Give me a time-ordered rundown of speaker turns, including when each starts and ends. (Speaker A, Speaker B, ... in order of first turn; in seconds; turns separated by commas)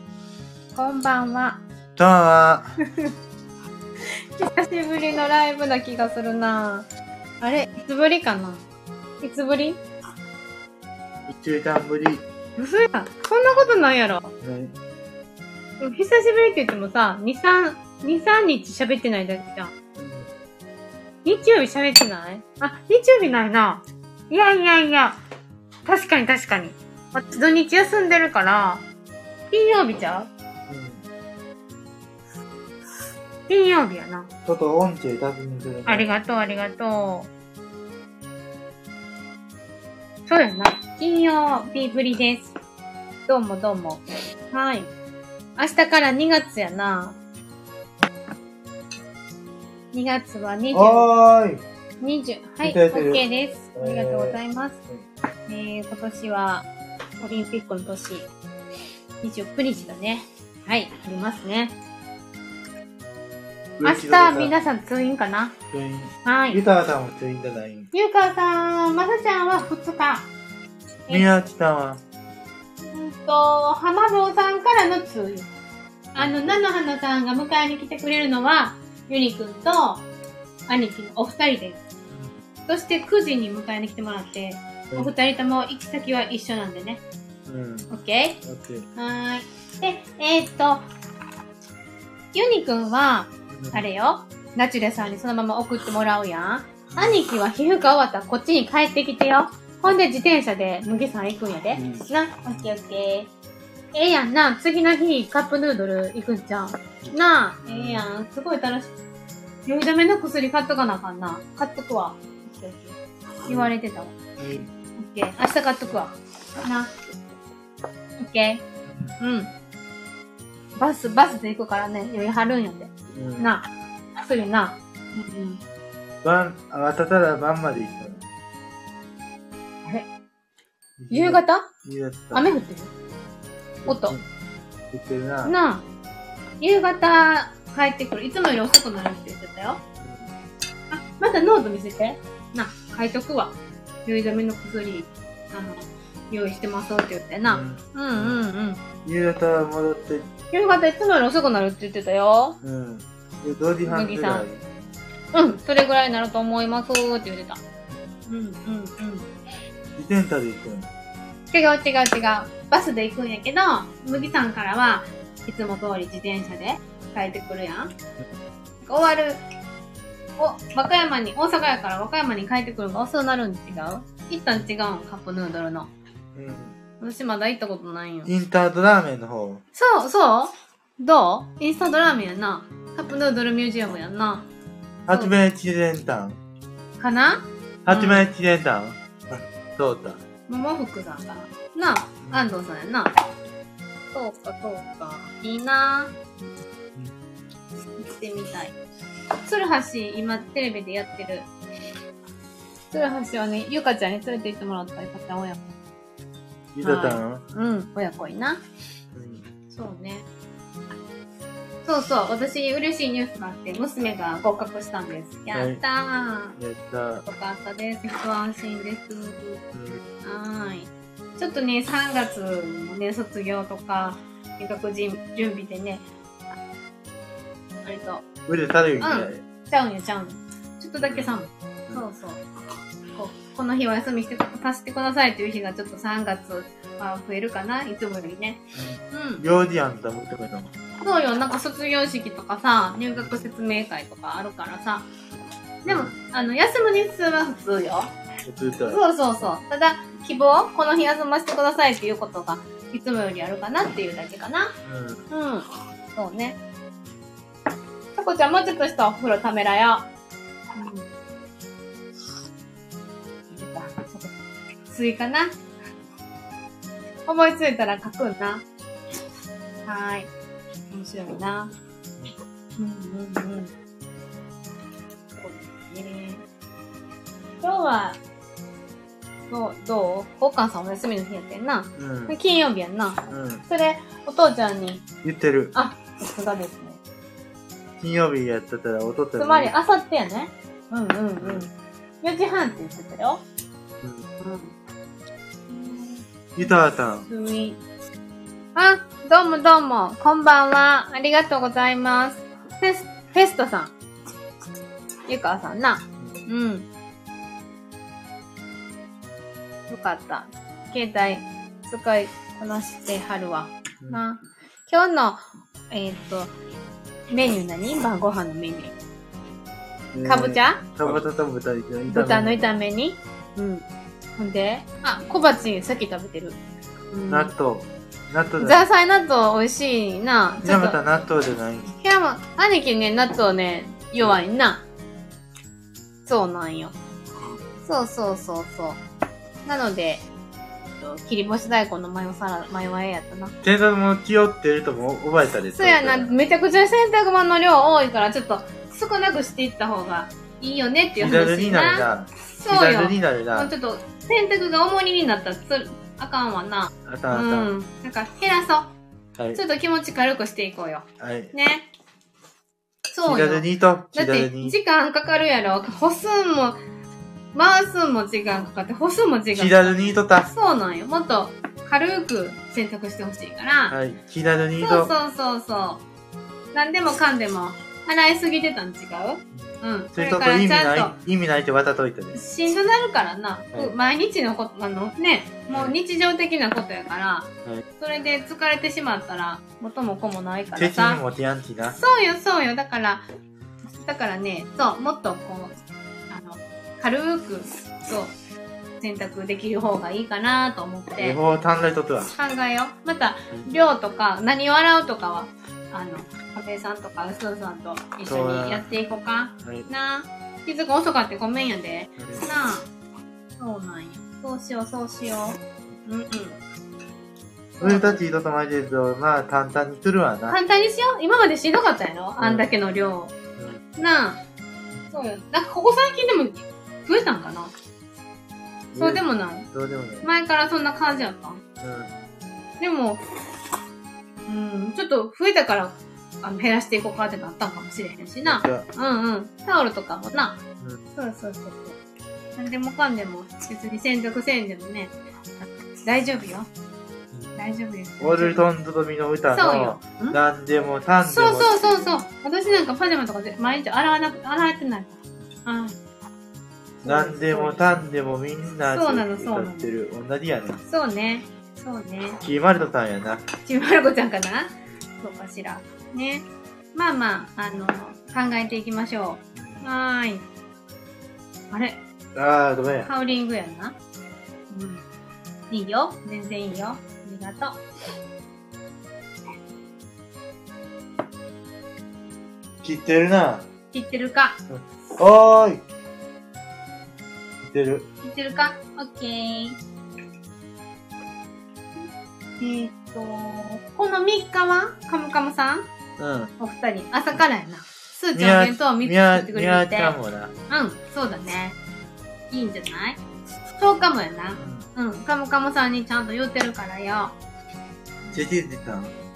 Speaker A: 0.8-1.6, Speaker B: 2.0-2.7, Speaker A: 4.4-6.9, Speaker A: 7.4-8.6, Speaker A: 9.2-9.8, Speaker B: 11.3-12.2, Speaker A: 12.6-14.3, Speaker B: 14.4-14.8, Speaker A: 15.8-19.7, Speaker B: 20.0-20.3, Speaker A: 21.2-25.2, Speaker A: 25.9-28.8, Speaker A: 29.5-30.3, Speaker B: 30.7-31.1, Speaker A: 33.5-34.3, Speaker B: 34.5-36.1, Speaker A: 35.9-37.3, Speaker A: 40.3-42.5, Speaker A: 43.3-44.9, Speaker A: 45.6-47.2, Speaker A: 49.9-51.1, Speaker B: 50.7-51.6, Speaker A: 52.0-54.8, Speaker B: 52.6-53.2, Speaker B: 53.8-55.0, Speaker A: 55.5-56.7, Speaker A: 57.2-58.3, Speaker A: 59.2-61.8, Speaker B: 63.8-64.5, Speaker A: 63.8-65.5, Speaker B: 65.7-67.9, Speaker A: 66.2-66.6, Speaker A: 67.9-70.3, Speaker B: 71.1-72.0, Speaker A: 72.9-75.5, Speaker A: 76.1-80.1, Speaker B: 76.2-76.7, Speaker A: 80.7-81.8, Speaker B: 82.1-82.4, Speaker A: 82.7-87.0, Speaker B: 87.5-87.9, Speaker A: 87.9-88.4, Speaker B: 88.4-88.9, Speaker A: 89.0-90.8, Speaker A: 92.3-103.3, Speaker B: 93.5-93.8, Speaker B: 96.9-97.2, Speaker B: 101.7-102.7, Speaker A: 103.9-108.9, Speaker B: 107.6-108.1, Speaker A: 109.7-114.2, Speaker B: 113.5-113.7, Speaker B: 114.4-114.7, Speaker A: 115.0-116.9, Speaker A: 118.2-118.6, Speaker B: 118.9-119.2, Speaker A: 119.2-119.5, Speaker A: 120.8-123.7, Speaker B: 123.1-123.5, Speaker A: 124.2-125.6, Speaker B: 126.2-128.3, Speaker B: 131.0-132.5, Speaker A: 131.1-131.7, Speaker A: 132.3-132.9, Speaker B: 133.8-134.2, Speaker A: 133.9-134.2, Speaker B: 134.9-135.6, Speaker A: 135.4-135.8, Speaker A: 136.6-139.8, Speaker B: 140.0-140.3, Speaker A: 140.9-148.8, Speaker B: 147.4-148.4, Speaker B: 149.0-150.3, Speaker A: 150.5-152.6, Speaker B: 152.6-154.6, Speaker A: 153.8-154.5, Speaker A: 155.3-157.6, Speaker A: 158.3-159.3, Speaker B: 160.0-160.9, Speaker A: 161.5-167.9, Speaker B: 164.1-164.4, Speaker A: 168.8-169.4, Speaker A: 170.4-175.9, Speaker B: 176.3-176.8, Speaker A: 177.0-178.3, Speaker B: 178.3-179.6, Speaker A: 179.8-184.5, Speaker B: 185.1-186.4, Speaker A: 185.1-185.3, Speaker A: 187.0-188.3, Speaker B: 187.9-190.2, Speaker A: 190.5-193.1, Speaker B: 192.2-192.5, Speaker A: 194.1-196.2, Speaker A: 198.0-198.8, Speaker A: 199.4-201.5, Speaker A: 202.9-205.7, Speaker B: 206.7-207.4, Speaker A: 206.8-208.6, Speaker B: 209.1-209.5, Speaker A: 209.7-210.2, Speaker A: 211.8-216.6, Speaker B: 215.5-215.8, Speaker B: 216.6-217.3, Speaker A: 217.2-219.6, Speaker B: 219.7-220.0, Speaker A: 220.2-226.5, Speaker A: 227.8-228.2, Speaker B: 228.5-229.4, Speaker A: 229.0-232.4, Speaker B: 231.0-231.4, Speaker A: 233.2-239.4, Speaker B: 238.8-240.7, Speaker A: 241.0-245.1, Speaker A: 245.8-248.1, Speaker B: 245.9-246.2, Speaker B: 248.4-249.0, Speaker A: 248.9-254.7, Speaker B: 254.8-255.2, Speaker A: 255.3-256.6, Speaker A: 258.2-260.1, Speaker A: 260.8-261.1, Speaker A: 263.5-264.3, Speaker A: 264.9-265.6, Speaker A: 267.3-268.6, Speaker A: 269.9-270.3, Speaker A: 270.9-271.7, Speaker A: 272.8-273.7, Speaker A: 275.4-276.4, Speaker A: 277.6-278.2, Speaker A: 279.5-285.0, Speaker B: 282.0-282.4, Speaker B: 283.3-283.6, Speaker B: 285.2-285.8, Speaker A: 285.7-287.0, Speaker B: 288.0-289.7, Speaker A: 289.4-291.7, Speaker A: 292.2-293.4, Speaker A: 294.4-294.7, Speaker A: 295.7-297.8, Speaker B: 296.6-297.3, Speaker A: 298.8-303.9, Speaker A: 305.3-306.9, Speaker A: 309.9-316.5, Speaker A: 317.3-318.9, Speaker B: 320.1-322.7, Speaker A: 320.2-320.9, Speaker A: 322.1-323.8, Speaker A: 324.4-327.5, Speaker B: 327.3-328.9, Speaker A: 328.6-331.0, Speaker B: 330.6-332.0, Speaker A: 332.0-334.8, Speaker A: 336.3-337.0, Speaker A: 337.8-339.0, Speaker A: 339.7-340.3, Speaker A: 341.0-343.5, Speaker B: 343.6-346.4, Speaker A: 345.7-358.9, Speaker B: 351.2-353.7, Speaker B: 357.1-357.7, Speaker A: 359.6-361.9, Speaker B: 361.2-361.5, Speaker A: 363.1-366.8, Speaker B: 363.2-364.8, Speaker A: 367.5-374.0, Speaker B: 369.6-370.5, Speaker B: 373.9-375.1, Speaker A: 374.8-376.0, Speaker A: 376.7-381.1, Speaker B: 379.6-382.4, Speaker A: 382.3-391.2, Speaker B: 390.8-392.0, Speaker A: 392.0-393.3, Speaker A: 393.9-395.8, Speaker A: 396.3-398.3, Speaker A: 399.0-401.4, Speaker B: 401.2-402.3, Speaker A: 402.3-412.9, Speaker B: 408.3-408.9, Speaker B: 409.6-409.9, Speaker B: 412.2-412.5, Speaker A: 413.6-416.6, Speaker A: 417.8-418.2, Speaker B: 417.8-420.6, Speaker A: 420.5-423.3, Speaker B: 422.4-422.7, Speaker B: 423.6-424.0, Speaker A: 424.0-424.4, Speaker A: 425.1-427.7, Speaker B: 428.9-430.3, Speaker A: 429.0-429.7, Speaker A: 430.2-431.6, Speaker B: 431.8-432.1, Speaker A: 432.8-433.2, Speaker A: 434.5-440.6, Speaker B: 438.4-438.9, Speaker A: 441.1-441.9, Speaker A: 442.6-445.1, Speaker A: 446.0-446.7, Speaker A: 447.6-448.6, Speaker B: 448.2-452.2, Speaker A: 449.5-450.4, Speaker A: 451.2-455.9, Speaker A: 457.0-458.1, Speaker B: 457.0-460.8, Speaker A: 458.9-459.9, Speaker A: 460.8-462.4, Speaker B: 462.4-463.4, Speaker A: 463.6-470.5, Speaker B: 469.6-469.9, Speaker A: 471.7-472.0, Speaker B: 472.4-473.1, Speaker A: 473.1-473.9, Speaker A: 474.7-475.0, Speaker A: 475.7-477.8, Speaker B: 482.8-483.7, Speaker A: 483.9-484.6, Speaker B: 484.7-485.8, Speaker B: 487.6-488.1, Speaker A: 488.2-489.8, Speaker A: 492.6-495.9, Speaker B: 496.2-496.5, Speaker A: 496.6-500.2, Speaker B: 498.3-500.5, Speaker A: 500.7-501.8, Speaker A: 502.5-503.2, Speaker A: 503.8-507.4, Speaker B: 504.6-504.9, Speaker B: 508.3-509.1